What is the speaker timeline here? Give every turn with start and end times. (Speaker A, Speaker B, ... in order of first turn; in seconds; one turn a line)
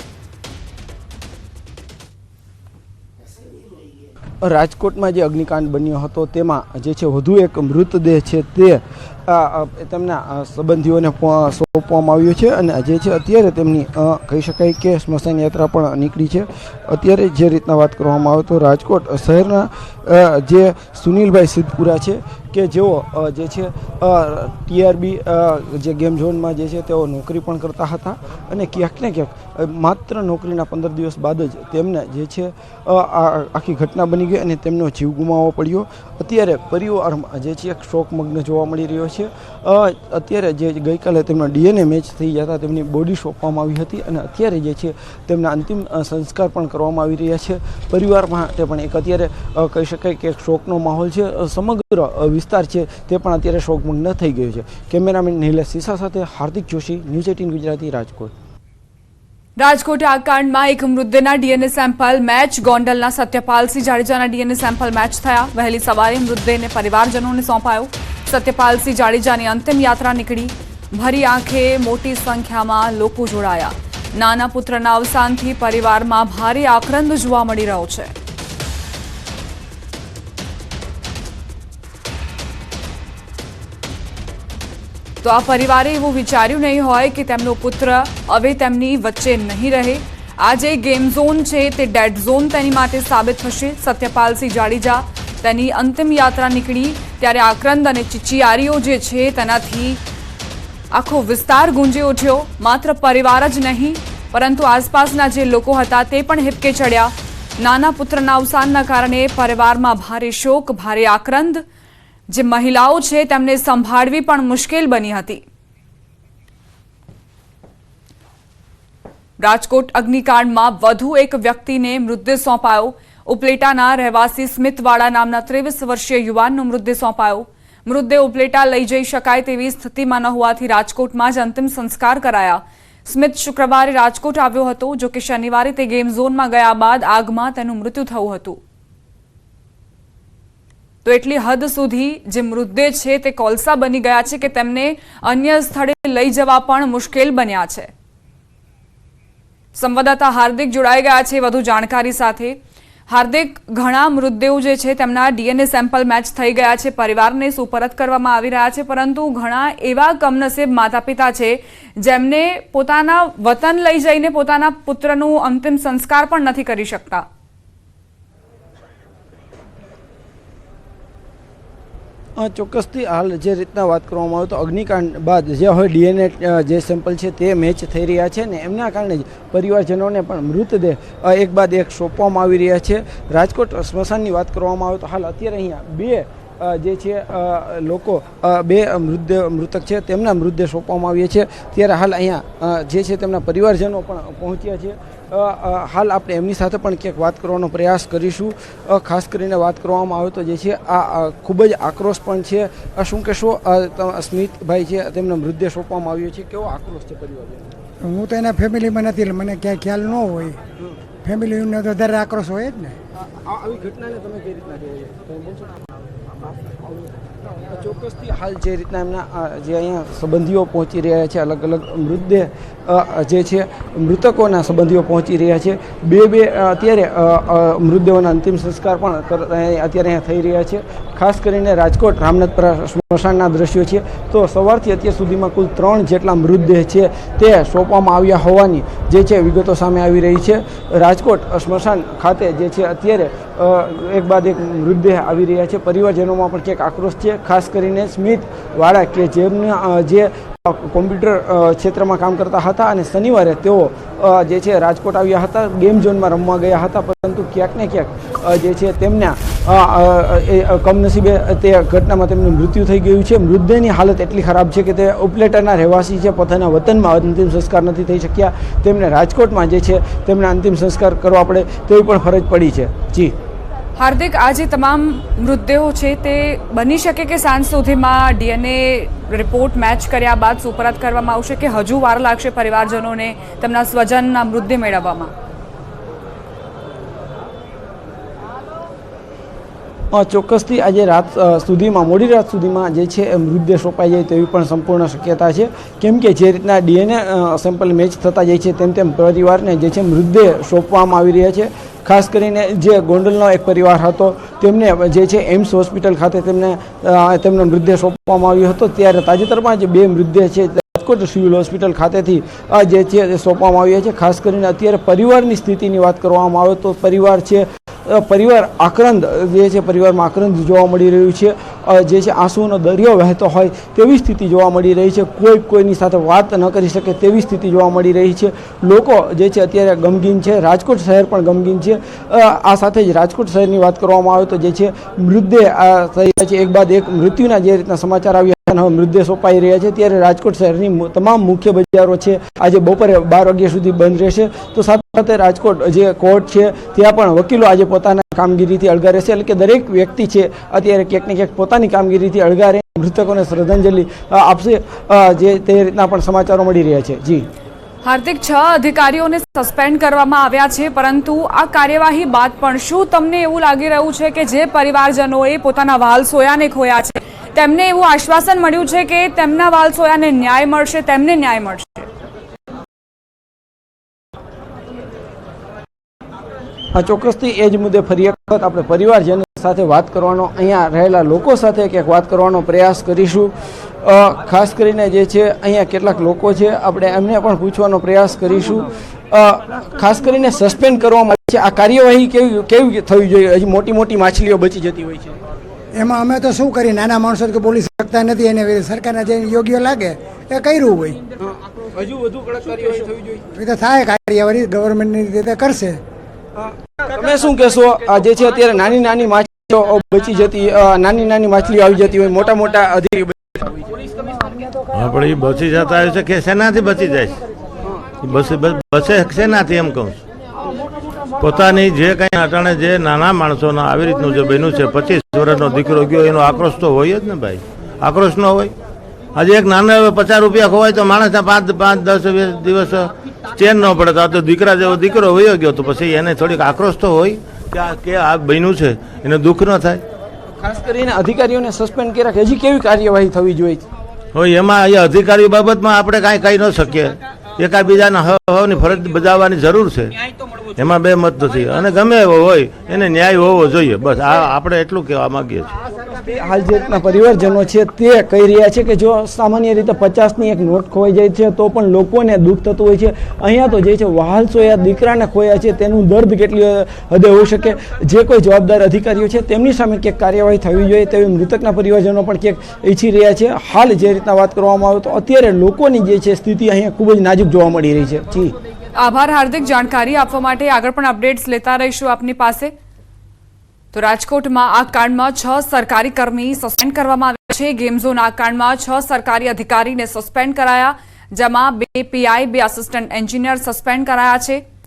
Speaker A: 4.5-58.3
Speaker B: 59.6-78.1
Speaker B: 85.2-100.0
Speaker B: 100.9-111.6
Speaker B: 112.3-115.4
Speaker B: 119.4-138.6
Speaker B: 141.0-147.9
Speaker B: 149.7-152.6
Speaker B: 153.1-167.2
Speaker A: 172.4-207.7
Speaker C: 208.0-210.6
Speaker C: 211.2-212.9
Speaker A: 213.4-215.6
Speaker A: 217.7-273.3
Speaker B: 274.0-285.3
Speaker A: 290.1-357.4
Speaker B: 358.0-372.1
Speaker A: 377.0-383.5
Speaker A: 384.0-395.3
Speaker C: 395.9-401.2
Speaker A: 401.9-403.3
Speaker C: 403.5-406.0
Speaker A: 406.6-413.8
Speaker D: 414.9-417.4
Speaker D: 418.2-420.2
Speaker D: 421.4-428.7
Speaker D: 429.3-440.0
Speaker A: 440.6-443.8
Speaker D: 444.3-450.1
Speaker D: 450.8-455.7
Speaker A: 456.1-478.5
Speaker B: 478.9-482.7
Speaker B: 483.9-494.6